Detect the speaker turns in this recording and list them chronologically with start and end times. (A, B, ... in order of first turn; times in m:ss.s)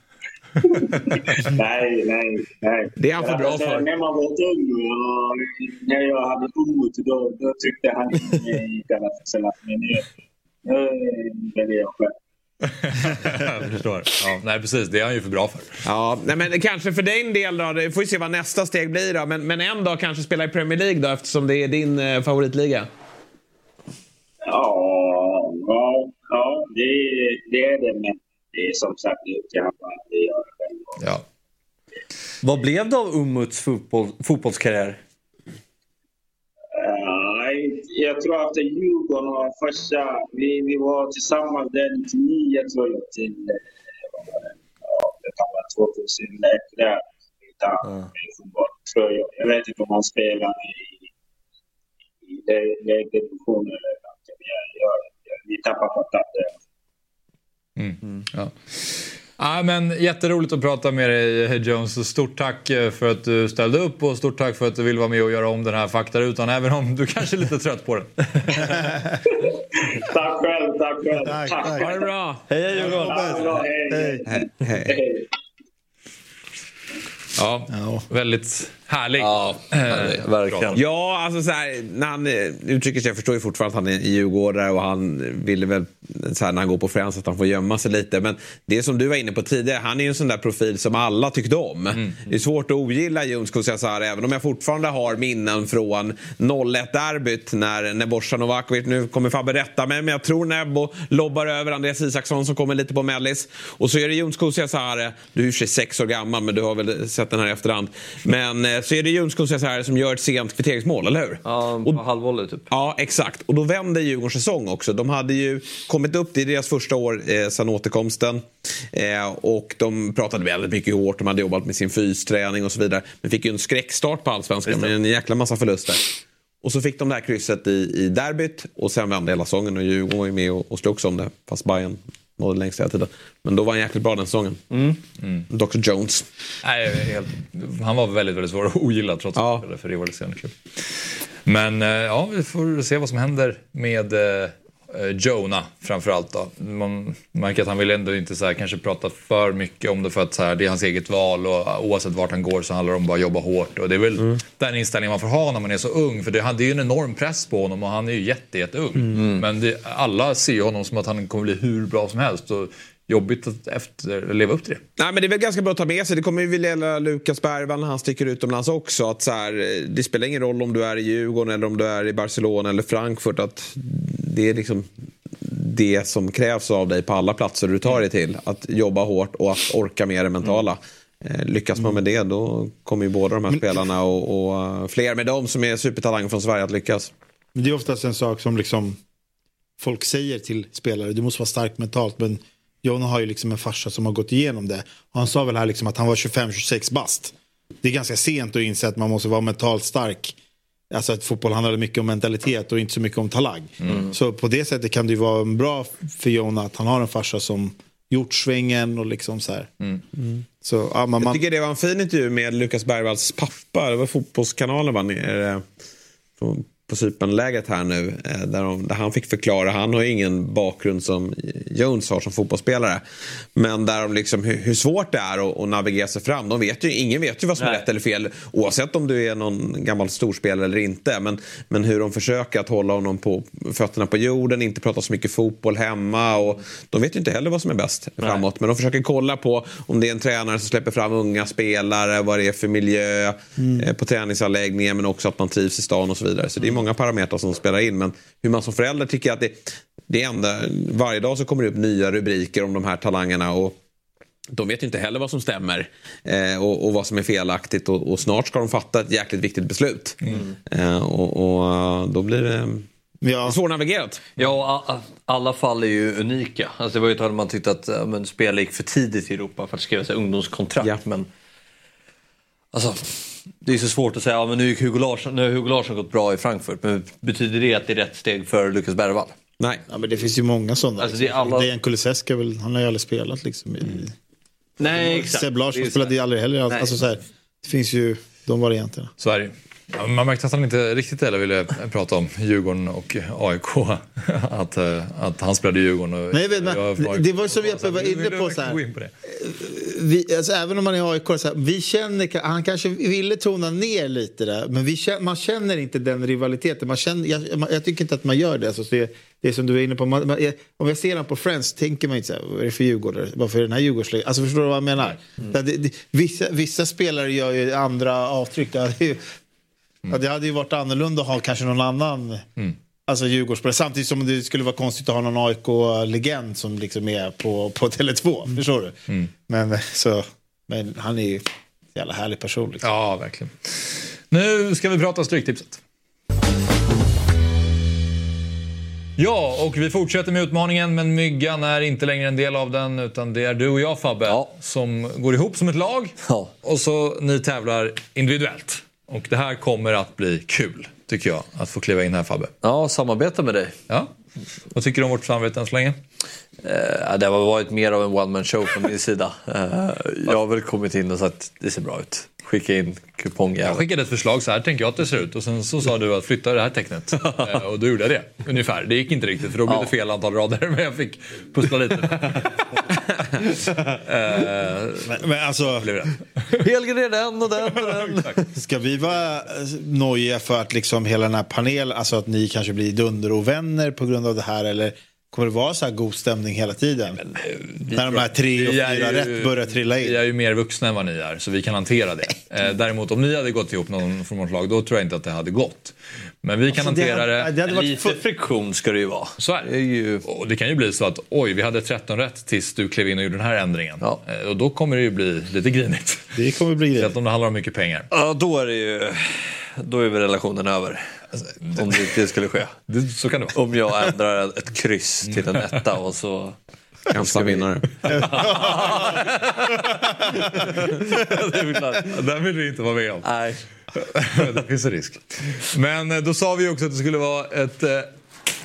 0:00.6-0:10.1 A
0:03.0-0:03.8 B
0:10.6-0:12.1 A
0:12.6-0:15.8 C
0:15.8-0:22.9 B
0:24.4-0:31.0 A
0:32.4-0:35.0 D
0:36.7-0:51.0 A
0:52.2-0:56.5 A
0:57.8-1:08.9 C
1:09.8-1:12.0 A
1:11.2-1:11.9 E
1:11.8-1:12.4 B
1:12.5-1:13.5 D
1:12.8-1:15.2 A
1:12.8-1:14.2 E
1:14.2-1:15.0 B
1:17.4-1:20.8 C
1:17.7-1:18.0 E
1:19.2-1:20.8 D
1:20.7-1:52.0 B
1:51.4-1:52.6 D
1:52.7-2:14.6 B
2:14.7-2:15.0 D
2:15.2-2:15.5 C
2:15.5-2:16.2 B
2:16.6-2:44.8 C
2:19.4-2:19.6 B
2:39.1-2:39.4 D
2:45.0-2:54.9 B
2:55.4-3:07.1 B
3:03.5-3:03.8 E
3:07.5-3:09.0 E
3:09.8-3:20.3 E
3:20.9-3:29.7 E
3:23.8-3:24.1 C
3:30.6-3:31.4 E
3:31.2-3:35.6 B
3:36.4-3:43.0 B
3:43.6-4:13.8 B
3:47.6-3:47.8 D
4:03.6-4:03.9 E
4:14.5-4:20.2 B
4:20.7-4:22.9 B
4:23.2-4:23.6 E
4:23.4-4:24.3 B
4:24.4-4:31.3 D
4:32.7-4:39.3 D
4:39.9-4:44.1 E
4:41.0-4:41.7 D
4:44.8-4:46.1 D
4:44.8-4:49.1 E
4:49.2-4:59.1 C
4:56.3-5:19.2 E
5:20.1-5:22.4 E
5:23.1-5:29.0 E
5:29.5-5:31.4 E
5:31.9-5:32.8 E
5:32.8-5:35.8 C
5:39.2-5:52.5 C
5:46.2-5:46.5 D
5:52.6-5:53.7 D
5:54.7-5:56.0 C
5:56.6-6:03.8 D
6:03.6-6:12.7 C
6:07.2-6:07.5 D
6:09.6-6:09.9 D
6:13.5-6:15.2 C
6:15.0-6:16.0 E
6:15.7-6:16.6 C
6:16.6-6:18.4 D
6:17.8-6:18.4 C
6:18.5-6:27.2 E
6:27.4-6:37.5 C
6:27.9-6:30.2 E
6:36.7-6:38.2 E
6:37.7-6:40.2 D
6:39.4-6:39.7 C
6:40.2-6:46.4 C
6:46.4-6:47.1 E
6:47.0-6:48.1 C
6:48.1-6:51.0 D
6:51.4-6:52.0 C
6:51.7-6:52.7 D
6:52.9-6:53.6 C
6:53.5-6:56.6 D
6:55.3-6:55.6 C
6:57.1-6:57.9 B
6:57.2-6:57.6 D
6:58.0-7:03.3 C
6:58.1-6:59.1 E
6:58.2-7:02.1 D
7:03.2-7:03.6 D
7:03.9-7:08.1 C